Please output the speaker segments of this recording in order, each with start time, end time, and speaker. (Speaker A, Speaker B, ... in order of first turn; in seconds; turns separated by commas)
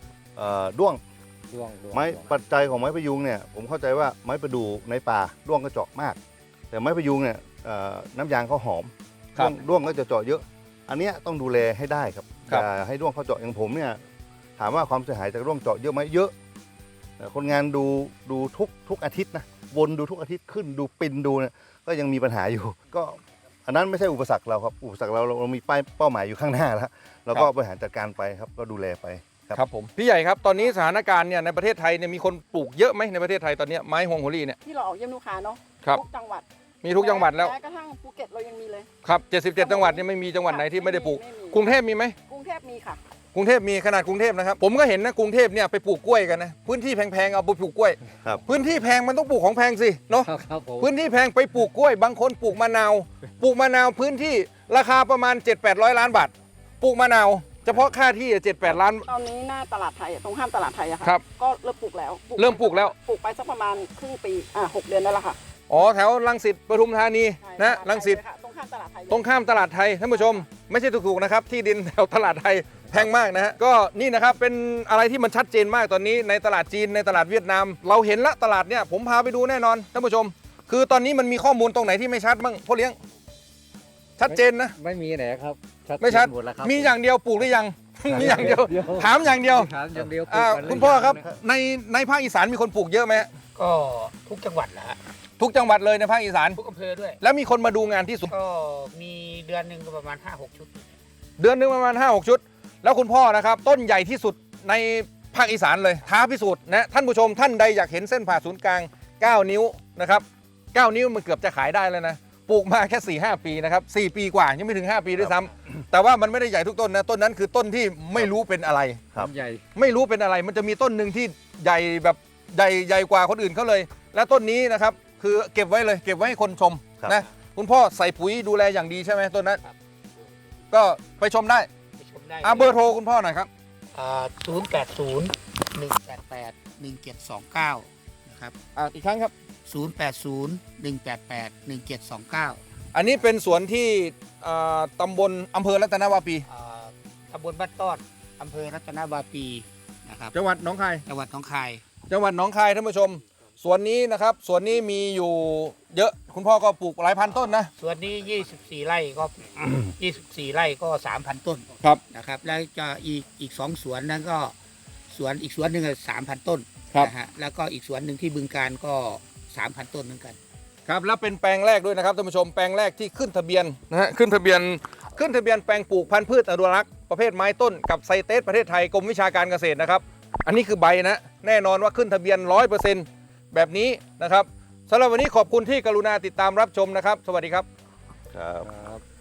Speaker A: 0.3-1.0, Speaker B: 1.5-2.2, Speaker A: 1.9-6.2, Speaker A: 6.7-14.0, Speaker A: 14.6-16.3, Speaker A: 17.2-29.6, Speaker C: 29.5-34.6, Speaker D: 34.6-38.9, Speaker C: 36.8-37.5, Speaker C: 39.0-42.1, Speaker D: 39.6-41.6, Speaker D: 42.3-43.0, Speaker C: 43.3-59.1, Speaker B: 50.2-50.9, Speaker D: 59.1-65.4, Speaker C: 62.4-62.9, Speaker C: 65.7-68.2, Speaker D: 67.4-69.3, Speaker C: 69.1-83.0, Speaker D: 70.1-70.4, Speaker C: 84.2-84.7, Speaker B: 84.2-86.9, Speaker C: 86.0-89.7, Speaker B: 88.1-91.3, Speaker C: 90.2-93.3, Speaker E: 93.5-95.0, Speaker C: 95.4-96.6, Speaker E: 96.5-97.2, Speaker C: 97.2-98.3, Speaker E: 98.3-101.0, Speaker C: 101.4-119.0, Speaker B: 119.2-119.6, Speaker C: 119.7-129.6, Speaker C: 130.7-131.7, Speaker E: 132.0-132.8, Speaker C: 132.4-133.5, Speaker E: 133.9-138.5, Speaker C: 138.7-139.3, Speaker E: 139.7-142.6, Speaker C: 142.9-146.4, Speaker E: 146.5-150.3, Speaker C: 150.3-151.0, Speaker E: 151.1-151.8, Speaker C: 152.1-157.7, Speaker E: 157.3-164.5, Speaker E: 165.1-170.4, Speaker C: 170.8-187.7, Speaker A: 188.3-188.7, Speaker B: 188.7-189.0